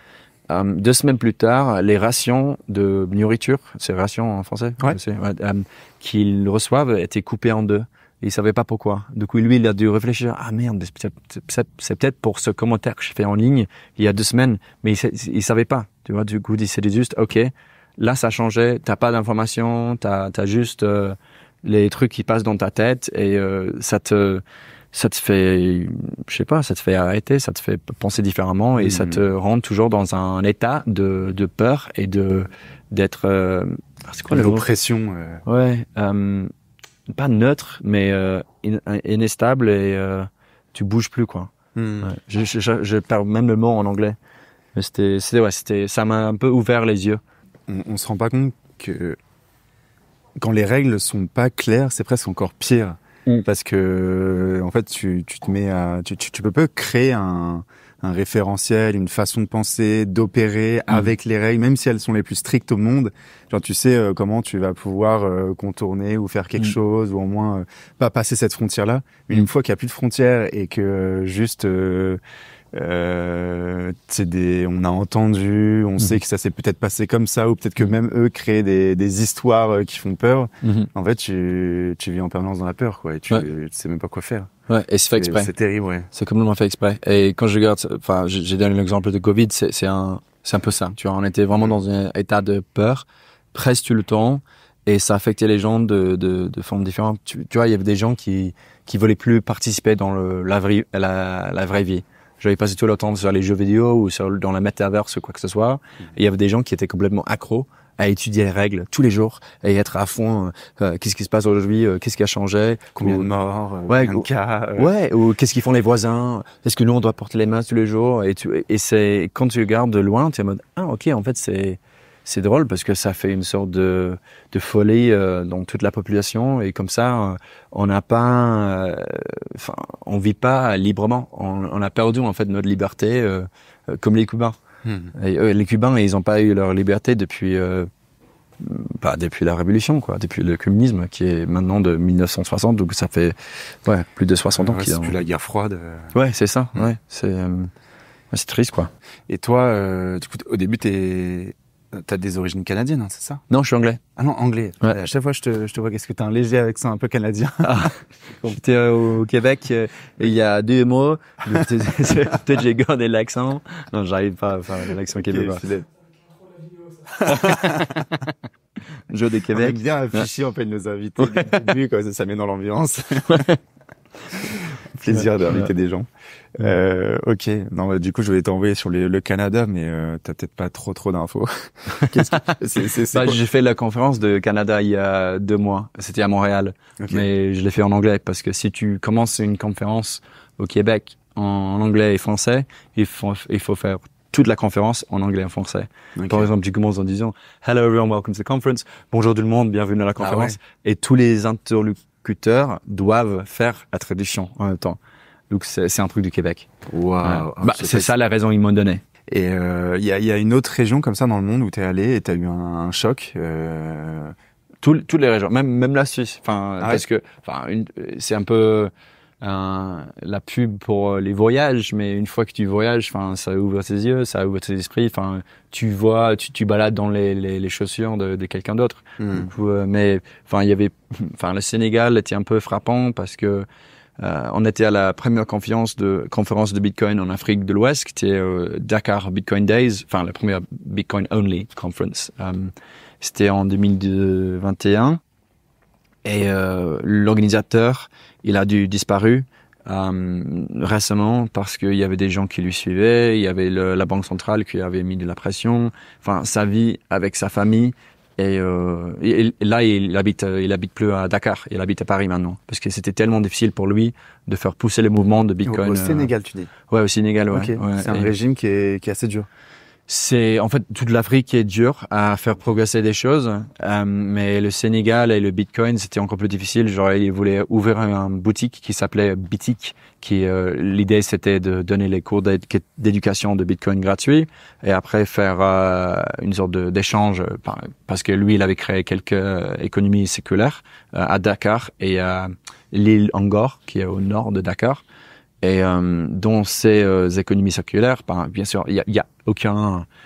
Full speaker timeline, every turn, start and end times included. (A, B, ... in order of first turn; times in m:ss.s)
0:00.5-0:34.6 A
0:28.8-0:29.2 B
0:34.3-0:35.4 B
0:35.5-0:36.5 A
0:37.1-0:41.5 A
0:41.8-0:42.1 B
0:42.0-0:44.2 A
0:44.8-0:47.2 A
0:47.7-0:49.2 B
0:50.4-1:12.2 B
1:12.7-1:24.5 B
1:20.6-1:20.9 A
1:24.7-1:25.5 A
1:25.2-1:26.1 B
1:26.1-1:53.3 A
1:53.0-1:54.9 B
1:53.9-2:14.6 A
2:14.8-2:15.1 B
2:15.2-2:17.9 A
2:18.6-2:25.2 A
2:24.5-2:26.1 B
2:26.1-2:27.7 A
2:28.3-2:28.9 A
2:29.3-2:33.4 B
2:33.5-2:34.0 A
2:34.2-2:37.9 B
2:37.6-2:45.6 A
2:45.2-2:45.9 B
2:47.1-2:48.1 B
2:47.2-2:47.9 A
2:49.1-2:50.2 A
2:49.5-2:53.4 B
2:51.2-2:51.7 A
2:53.3-2:53.6 A
2:54.3-3:03.4 B
2:55.1-2:55.7 A
3:03.1-3:25.0 A
3:07.0-3:07.3 B
3:16.2-3:16.5 B
3:20.2-3:20.6 B
3:25.5-3:26.7 A
3:26.9-3:28.1 B
3:27.2-3:29.0 A
3:29.3-3:34.4 B
3:34.8-3:53.7 A
3:49.2-3:49.5 B
3:54.2-4:05.2 A
4:06.2-4:26.3 A
4:25.7-4:26.7 B
4:26.9-4:28.3 A
4:27.5-4:29.5 B
4:30.1-4:55.0 A
4:55.6-5:00.1 A